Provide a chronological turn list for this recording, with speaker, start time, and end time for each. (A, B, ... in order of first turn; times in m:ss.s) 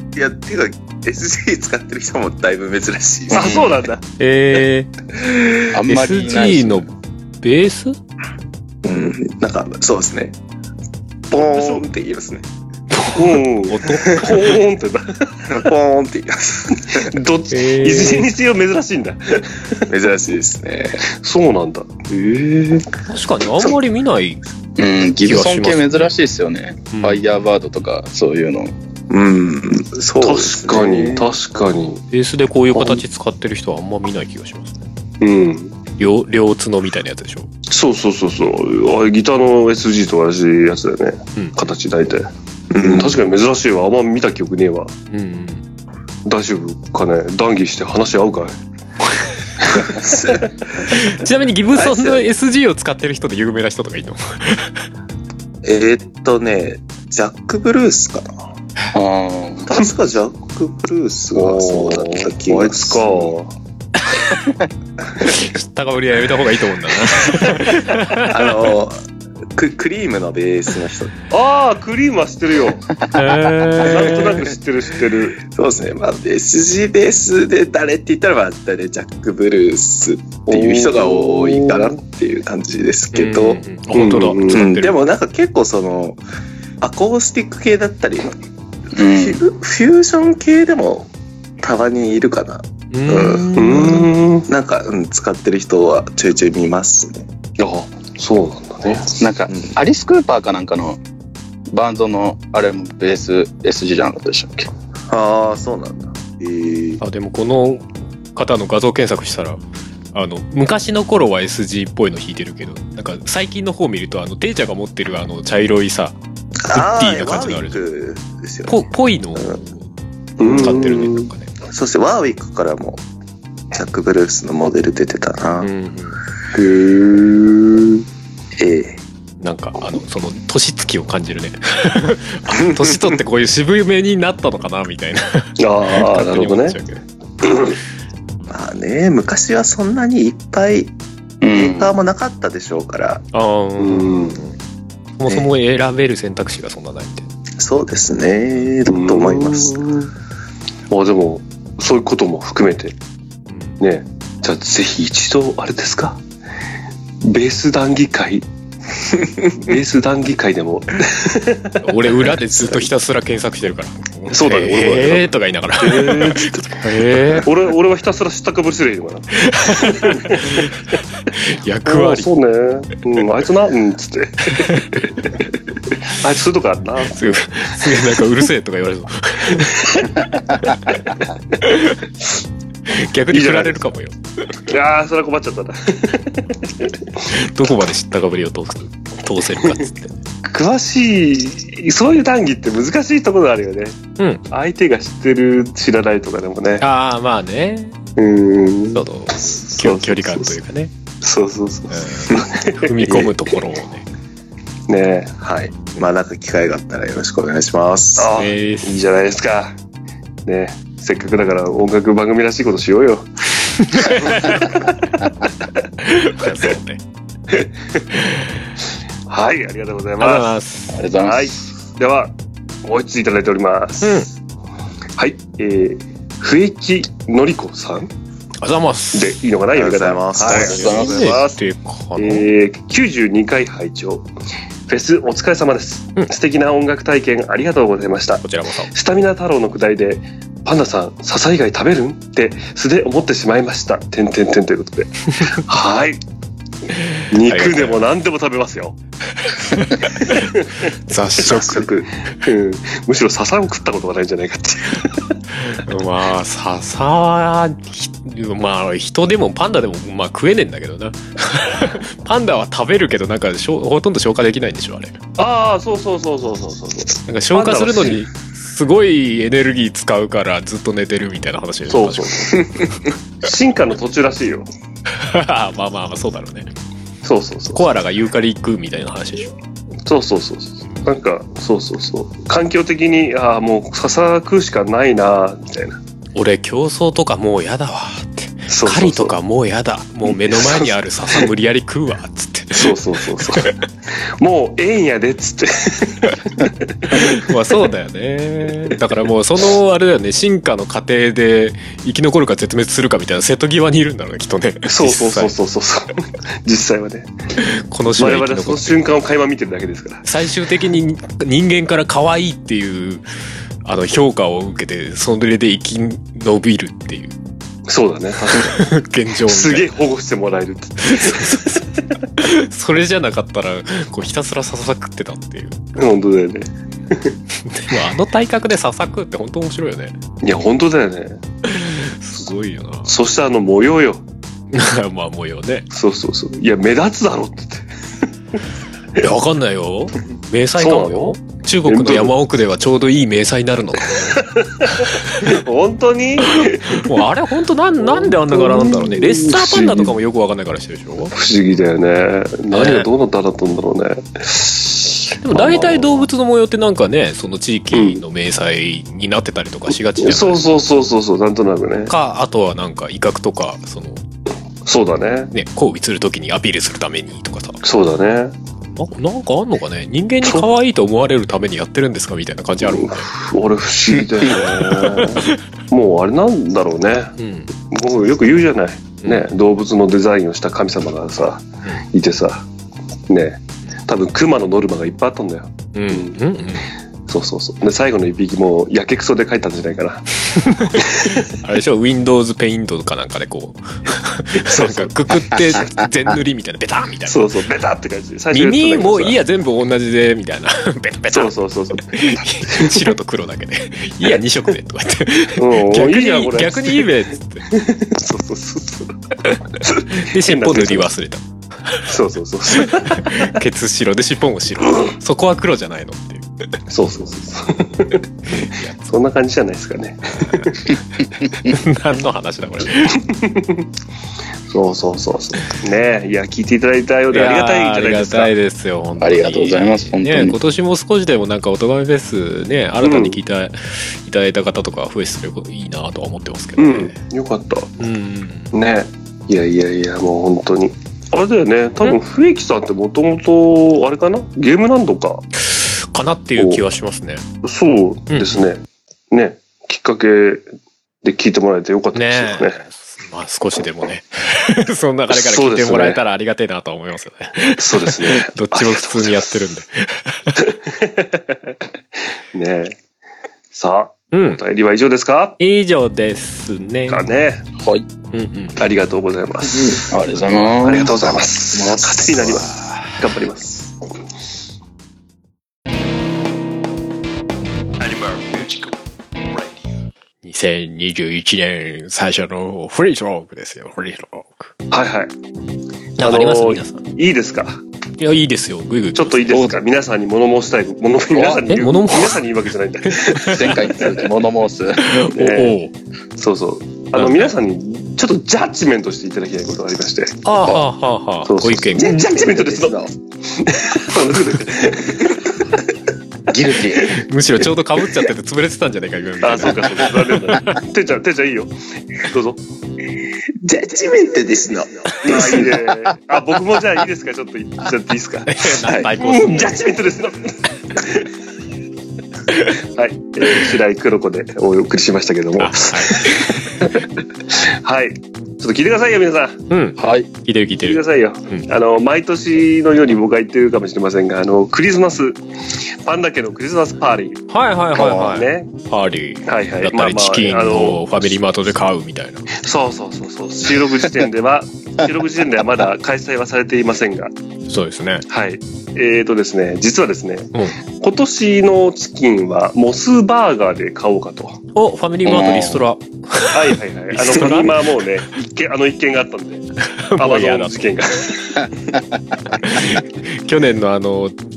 0:00.1-0:03.7 A
0:03.3-0:03.7 B
0:03.3-0:04.0 C
0:04.2-0:06.8 D
0:05.7-0:06.9 B
0:07.4-0:08.0 D
0:08.8-0:10.4 A
0:11.3-0:12.4 A
0:11.3-0:11.8 C
0:12.9-0:14.6 D
0:13.0-0:15.3 C
0:15.5-0:17.1 A
0:16.8-0:19.9 C
0:17.5-0:18.3 D
0:19.9-0:21.0 A
0:21.1-0:22.9 C
0:23.1-0:24.4 D
0:24.8-0:28.7 B
0:25.2-0:26.1 D
0:26.9-0:27.2 D
0:29.1-0:31.3 A
0:30.2-0:32.0 C
0:32.1-0:34.8 D
0:35.2-0:35.7 C
0:36.0-0:37.5 D
0:37.7-0:42.3 C
0:42.7-0:43.2 A
0:42.8-0:44.9 C
0:45.1-0:45.6 D
0:46.2-0:48.6 C
0:49.6-0:50.1 C
0:49.7-0:52.3 A
0:50.9-0:54.7 D
0:55.6-0:58.3 A
0:58.9-0:59.7 B
0:59.6-1:03.3 A
1:01.3-1:03.5 C
1:05.2-1:08.6 D
1:07.4-1:07.6 C
1:08.2-1:09.0 A
1:09.5-1:11.1 A
1:11.3-1:12.8 C
1:13.1-1:14.4 D
1:13.8-1:15.4 C
1:15.4-1:23.6 A
1:20.5-1:22.0 C
1:23.1-1:25.0 D
1:23.9-1:24.6 C
1:24.5-1:26.2 A
1:26.8-1:28.3 A
1:28.9-1:29.4 B
1:29.0-1:31.1 A
1:31.6-1:37.3 A
1:32.9-1:34.1 D
1:33.6-1:34.5 C
1:37.6-1:39.1 C
1:39.2-1:41.0 B
1:41.7-1:44.7 B
1:45.1-1:47.0 A
1:47.0-1:49.6 D
1:50.1-1:56.2 D
1:56.6-1:58.7 A
1:56.7-1:57.8 D
1:58.7-1:59.7 D
2:00.4-2:01.3 C
2:00.4-2:00.7 A
2:00.4-2:01.5 D
2:01.7-2:03.0 A
2:03.7-2:05.7 A
2:05.6-2:06.2 D
2:06.5-2:08.0 C
2:08.6-2:09.0 A
2:09.4-2:17.0 D
2:15.6-2:16.8 C
2:17.4-2:17.8 C
2:18.5-2:20.9 A
2:21.4-2:21.9 B
2:21.5-2:23.2 A
2:23.3-2:24.5 D
2:23.8-2:24.4 C
2:25.2-2:27.3 D
2:27.6-2:29.8 A
2:28.9-2:30.1 C
2:30.9-2:33.0 C
2:33.8-2:36.2 C
2:37.2-2:38.5 C
2:39.6-2:42.8 C
2:41.8-2:47.5 D
2:44.3-2:46.8 C
2:47.4-2:50.7 C
2:49.4-2:50.7 D
2:51.3-2:52.3 D
2:51.8-2:55.4 C
2:56.0-2:58.2 C
2:57.1-3:01.0 D
2:59.5-3:00.2 C
3:01.6-3:02.0 D
3:02.9-3:04.1 D
3:03.3-3:03.8 C
3:04.7-3:06.9 C
3:07.3-3:10.1 D
3:10.4-3:16.8 C
3:16.8-3:18.0 D
3:18.2-3:19.0 C
3:18.9-3:20.9 D
3:19.6-3:20.6 C
3:21.2-3:23.2 C
3:21.9-3:24.0 D
3:24.9-3:25.4 C
3:25.4-3:28.3 A
3:28.2-3:29.7 C
3:28.4-3:28.9 D
3:30.4-3:33.3 C
3:33.9-3:35.3 C
3:33.9-3:34.7 D
3:36.0-3:37.0 D
3:39.3-3:40.5 C
3:40.2-3:41.0 D
3:40.9-3:41.4 B
3:41.2-3:44.3 C
3:44.0-3:44.3 D
3:45.2-3:48.1 C
3:48.6-3:49.3 D
3:49.1-3:51.6 C
3:49.7-3:51.3 A
3:50.4-3:51.4 B
3:50.6-3:52.5 D
3:52.2-3:54.2 C
3:54.9-4:06.2 C
3:58.4-3:58.9 D
4:07.0-4:08.0 D
4:07.3-4:08.9 C
4:09.5-4:10.5 D
4:10.0-4:10.9 C
4:11.1-4:11.9 D
4:11.4-4:15.3 C
4:11.5-4:11.8 A
4:15.6-4:25.2 D
4:25.4-4:28.2 C
4:27.3-4:32.8 D
4:31.9-4:32.7 C
4:33.4-4:34.6 C
4:35.2-4:36.7 D
4:37.2-4:37.8 C
4:37.7-4:39.5 D
4:40.0-4:46.0 C
4:46.3-4:53.7 D
4:48.7-4:49.4 C
4:50.3-4:51.5 C
4:52.7-4:57.5 C
4:57.1-5:05.5 D
5:04.8-5:07.3 C
5:07.6-5:09.0 D
5:08.2-5:10.2 C
5:10.2-5:13.2 D
5:13.8-5:17.4 D
5:17.9-5:18.8 C
5:18.5-5:19.9 D
5:19.4-5:21.8 C
5:21.0-5:21.8 D
5:22.4-5:25.8 D
5:26.0-5:27.4 C
5:27.7-5:30.1 D
5:30.4-5:31.4 C
5:31.6-5:33.1 D
5:33.0-5:34.2 C
5:34.7-5:35.8 D
5:35.9-5:37.9 C
5:39.2-5:44.4 D
5:40.8-5:42.3 C
5:44.3-5:47.1 C
5:46.5-5:51.3 D
5:48.0-5:50.1 C
5:51.3-5:56.3 C
5:52.7-5:53.1 D
5:55.4-6:00.6 D
5:57.9-5:58.2 C
6:00.2-6:02.1 C
6:02.1-6:04.2 D
6:04.8-6:05.5 C
6:05.5-6:07.8 D
6:07.8-6:08.5 C
6:09.0-6:13.3 D
6:12.8-6:17.3 C
6:14.5-6:15.5 D
6:17.4-6:17.7 D
6:17.9-6:22.6 C
6:23.3-6:26.4 C
6:25.9-6:26.8 D
6:27.3-6:30.3 C
6:30.6-6:37.4 D
6:30.8-6:31.6 C
6:34.5-6:35.1 C
6:37.3-6:39.4 C
6:38.5-6:47.6 D
6:41.3-6:43.1 C
6:45.6-6:47.1 C
6:47.7-6:49.2 C
6:49.8-6:51.1 C
6:50.1-6:52.0 D
6:52.0-6:53.6 C
6:52.7-6:56.4 D
6:56.9-7:01.0 C
6:58.6-6:59.0 D
7:00.4-7:00.7 D
7:01.5-7:03.2 D
7:03.2-7:03.8 C
7:04.7-7:08.5 C
7:07.3-7:17.2 D
7:09.2-7:10.6 B
7:13.0-7:13.4 C
7:16.8-7:17.9 C
7:18.0-7:18.7 D
7:18.7-7:25.4 C
7:25.6-7:27.4 D
7:27.6-7:30.6 C
7:28.3-7:28.7 D
7:31.2-7:32.8 C
7:32.1-7:40.6 D
7:35.3-7:36.2 C
7:37.8-7:39.4 C
7:40.5-7:41.8 C
7:42.5-7:43.0 C
7:43.7-7:45.6 C
7:44.3-7:44.6 D
7:45.6-7:47.2 D
7:47.1-7:47.6 C
7:47.8-7:48.0 B
7:48.3-7:48.8 D
7:48.8-7:50.1 C
7:49.7-7:52.3 B
7:50.8-7:53.9 C
7:52.6-7:53.1 D
8:00.4-8:04.7 D
8:04.9-8:05.3 C
8:06.2-8:07.0 D
8:06.2-8:07.8 C
8:08.2-8:09.7 D
8:09.1-8:14.1 C
8:11.3-8:11.6 B
8:11.7-8:12.5 D
8:13.2-8:13.8 D
8:13.3-8:15.2 B
8:15.0-8:15.9 D
8:15.3-8:15.8 C
8:16.4-8:20.4 C
8:17.2-8:17.5 D
8:20.4-8:22.2 D
8:21.4-8:25.6 C
8:22.2-8:22.9 A
8:26.5-8:27.2 B
8:27.0-8:30.8 D
8:29.4-8:32.6 C
8:33.6-8:35.8 A
8:35.2-8:41.3 C
8:38.5-8:39.8 D
8:42.9-8:49.6 C
8:45.6-8:47.0 D
8:49.7-8:51.6 D
8:50.0-8:50.3 B
8:50.8-8:55.4 C
8:56.0-8:57.4 C
8:57.5-9:02.5 D
8:57.9-8:58.7 C
8:59.4-9:01.4 C
9:02.5-9:07.3 C
9:07.7-9:08.2 D
9:08.3-9:14.6 C
9:14.7-9:17.9 D
9:15.2-9:15.8 B
9:16.5-9:21.7 C
9:20.0-9:20.9 D
9:22.6-9:24.3 D